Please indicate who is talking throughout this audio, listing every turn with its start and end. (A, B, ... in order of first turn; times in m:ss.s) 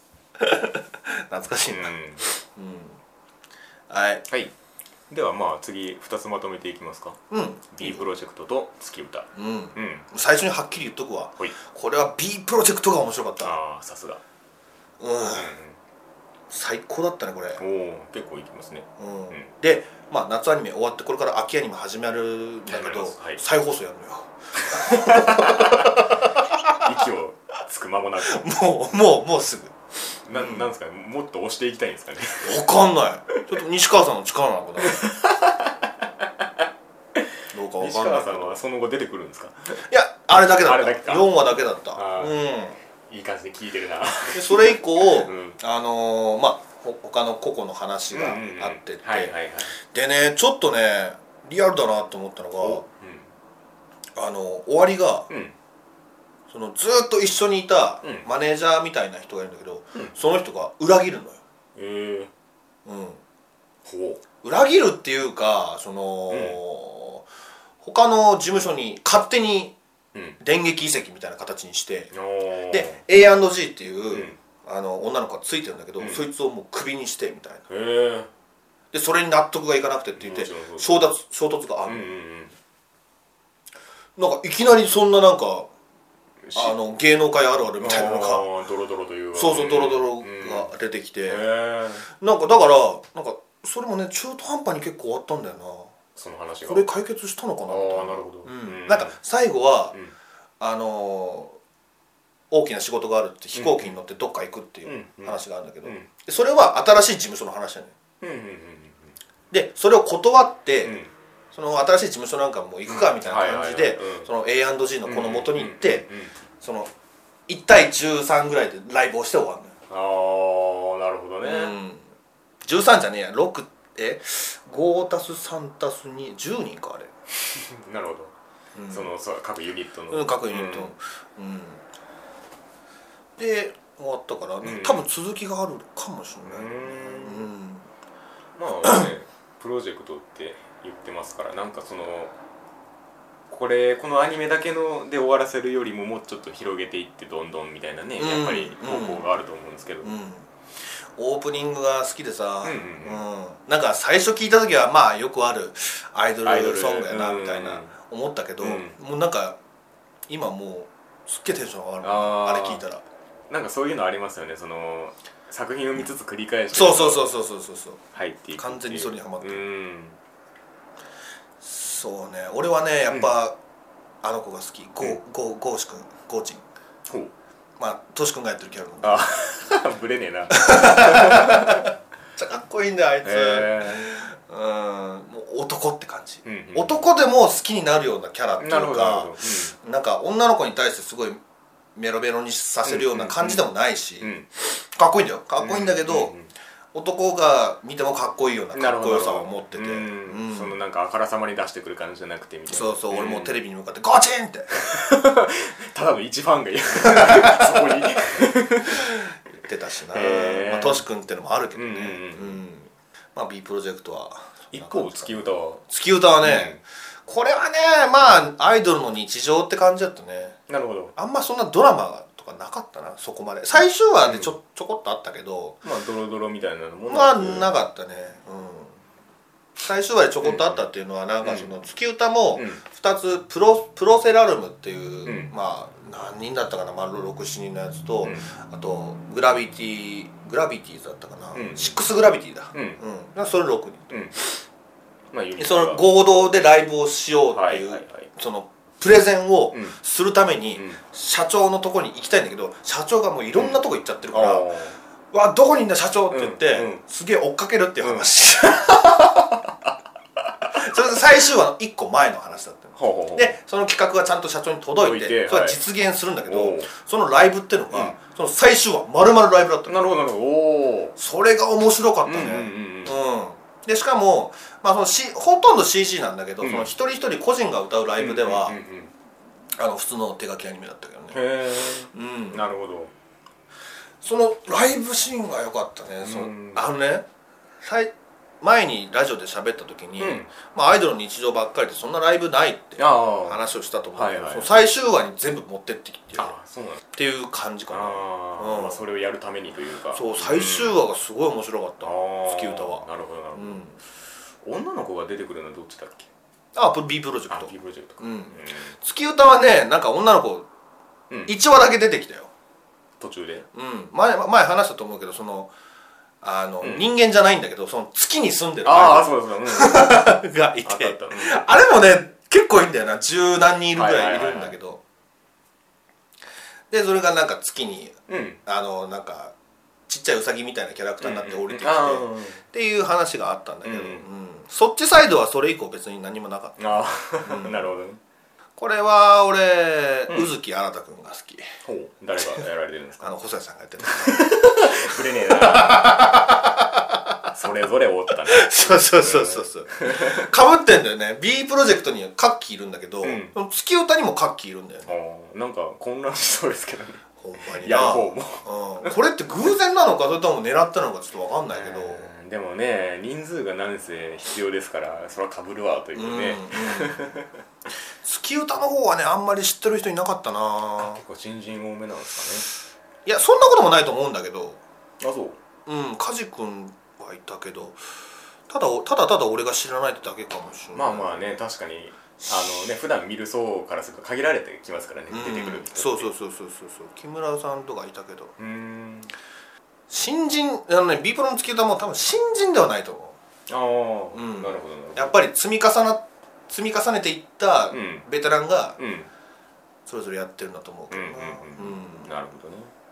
0:00.4-0:03.0 A
0:01.7-0:02.2 B
0:03.9-0:04.2 A
0:05.1-0:07.2 B
0:07.3-0:08.0 A
0:07.7-0:10.1 B
0:09.3-0:13.6 A
0:13.4-0:14.2 B
0:15.0-0:15.5 A
0:15.3-0:15.8 B
0:16.5-0:17.6 A
0:17.6-0:19.5 B
0:19.0-0:26.9 A
0:22.7-0:23.4 B
0:24.7-0:26.0 B
0:26.8-0:28.5 B
0:28.2-0:29.8 A
0:30.2-0:32.6 B
0:30.3-0:30.7 A
0:32.4-0:35.0 A
0:34.8-0:36.2 B
0:37.5-0:38.6 A
0:37.8-0:39.8 B
0:39.9-0:42.8 A
0:40.6-0:42.4 B
0:43.1-0:45.6 B
0:44.3-0:52.8 A
0:48.1-0:49.7 B
0:52.6-0:53.3 B
0:54.2-0:55.3 A
0:55.3-0:55.5 B
0:56.5-1:01.4 A
0:58.0-0:58.3 B
1:01.8-1:02.3 B
1:02.8-1:03.2 A
1:03.8-1:04.2 B
1:04.4-1:07.2 A
1:06.3-1:06.6 B
1:07.8-1:09.7 A
1:10.4-1:12.1 A
1:12.1-1:13.0 B
1:12.7-1:17.6 A
1:14.1-1:14.4 B
1:16.0-1:16.2 B
1:17.7-1:18.3 B
1:18.9-1:22.1 A
1:20.2-1:21.1 B
1:21.8-1:22.5 B
1:24.2-1:25.7 A
1:26.4-1:26.8 B
1:26.5-1:28.5 A
1:27.8-1:30.7 B
1:29.3-1:31.4 A
1:31.3-1:32.1 B
1:32.1-1:36.0 A
1:36.2-1:36.8 B
1:36.6-1:40.0 A
1:37.6-1:39.2 B
1:40.6-1:41.6 A
1:42.5-1:47.9 A
1:43.5-1:43.9 B
1:44.8-1:46.1 B
1:48.2-1:49.1 B
1:49.5-1:51.0 A
1:50.8-1:51.1 B
1:51.5-1:56.1 A
1:52.9-1:54.3 B
1:55.0-1:56.4 B
1:56.6-1:56.9 A
1:57.5-1:59.7 A
1:59.9-2:01.7 B
2:01.4-2:02.1 A
2:02.6-2:07.1 A
2:07.5-2:08.3 B
2:08.7-2:09.1 A
2:08.9-2:10.9 B
2:10.1-2:11.8 A
2:13.4-2:17.9 A
2:14.6-2:15.1 B
2:16.4-2:17.5 B
2:18.6-2:22.3 B
2:23.5-2:30.1 B
2:28.2-2:29.2 A
2:30.0-2:30.5 A
2:31.2-2:39.6 A
2:32.6-2:33.2 B
2:36.4-2:37.9 B
2:38.6-2:39.0 B
2:40.3-2:43.0 A
2:42.0-2:42.8 B
2:43.5-2:47.3 B
2:46.7-2:48.0 A
2:48.1-2:50.2 B
2:48.6-2:49.6 A
2:51.6-2:53.6 A
2:54.2-2:56.6 A
2:57.1-2:57.3 B
2:57.8-2:59.2 A
2:59.0-3:01.9 B
3:00.5-3:11.4 A
3:03.2-3:04.1 B
3:06.4-3:07.0 B
3:08.6-3:09.7 B
3:11.9-3:16.3 A
3:12.8-3:13.6 B
3:14.2-3:14.4 B
3:15.6-3:16.5 B
3:16.9-3:20.8 A
3:18.7-3:23.6 B
3:22.7-3:24.9 A
3:24.7-3:29.1 B
3:27.1-3:27.9 A
3:28.9-3:40.6 A
3:30.1-3:31.0 B
3:31.7-3:32.6 B
3:34.7-3:35.8 B
3:36.4-3:36.8 B
3:40.7-3:41.1 B
3:41.2-3:45.8 A
3:44.2-3:44.5 B
3:45.8-3:47.7 B
3:47.1-3:49.0 A
3:49.8-4:04.4 A
3:50.4-3:50.8 B
3:51.4-3:51.7 B
3:52.5-3:52.8 B
3:55.2-3:55.5 B
3:58.2-3:58.5 B
4:01.5-4:02.0 B
4:02.7-4:03.0 B
4:04.1-4:04.4 B
4:05.3-4:06.0 B
4:05.6-4:14.7 A
4:07.5-4:08.3 B
4:10.7-4:11.0 B
4:13.5-4:13.8 B
4:14.3-4:15.0 B
4:15.3-4:19.2 A
4:16.3-4:17.0 B
4:18.0-4:19.9 B
4:20.7-4:30.0 A
4:23.0-4:23.6 B
4:25.0-4:25.8 B
4:26.5-4:26.9 B
4:27.9-4:28.2 B
4:29.9-4:31.2 B
4:31.2-4:38.8 A
4:32.2-4:33.2 B
4:36.6-4:36.9 B
4:38.2-4:39.1 B
4:39.8-4:41.4 A
4:41.3-4:43.1 B
4:42.1-4:42.6 A
4:44.2-4:47.2 A
4:46.2-4:46.8 B
4:47.8-4:56.6 A
4:50.2-4:50.5 B
4:53.0-4:53.6 B
4:54.1-4:54.8 B
4:56.4-4:57.0 B
4:57.1-4:59.0 A
4:57.9-5:01.0 B
5:00.1-5:04.0 A
5:02.0-5:03.8 B
5:04.6-5:06.3 B
5:06.7-5:10.7 A
5:07.5-5:09.0 B
5:11.3-5:11.5 B
5:11.5-5:12.5 A
5:13.2-5:13.7 B
5:13.7-5:15.7 A
5:16.4-5:25.0 A
5:16.8-5:17.1 B
5:18.8-5:21.7 B
5:23.9-5:24.8 B
5:26.9-5:29.5 A
5:28.3-5:28.6 B
5:30.1-5:36.8 A
5:31.2-5:32.6 B
5:33.8-5:34.2 B
5:36.8-5:38.2 B
5:37.4-5:37.9 A
5:38.8-5:41.6 A
5:40.3-5:40.5 B
5:41.8-5:43.3 B
5:42.4-5:42.6 A
5:43.2-5:47.4 A
5:44.0-5:46.3 B
5:47.5-5:50.5 B
5:48.4-5:55.1 A
5:53.2-5:53.5 B
5:55.0-5:57.2 B
5:57.4-6:02.3 A
5:57.8-5:59.1 B
6:01.7-6:07.5 B
6:06.1-6:07.2 A
6:08.2-6:11.2 A
6:11.0-6:12.7 B
6:13.2-6:14.8 A
6:15.2-6:15.6 B
6:15.8-6:18.0 A
6:18.7-6:21.4 A
6:20.9-6:26.3 B
6:25.3-6:28.5 A
6:28.6-6:29.3 B
6:30.1-6:33.4 A
6:33.7-6:35.4 B
6:34.3-6:39.0 A
6:37.9-6:38.2 B
6:39.0-6:39.3 B
6:40.0-6:42.3 A
6:41.1-6:42.9 B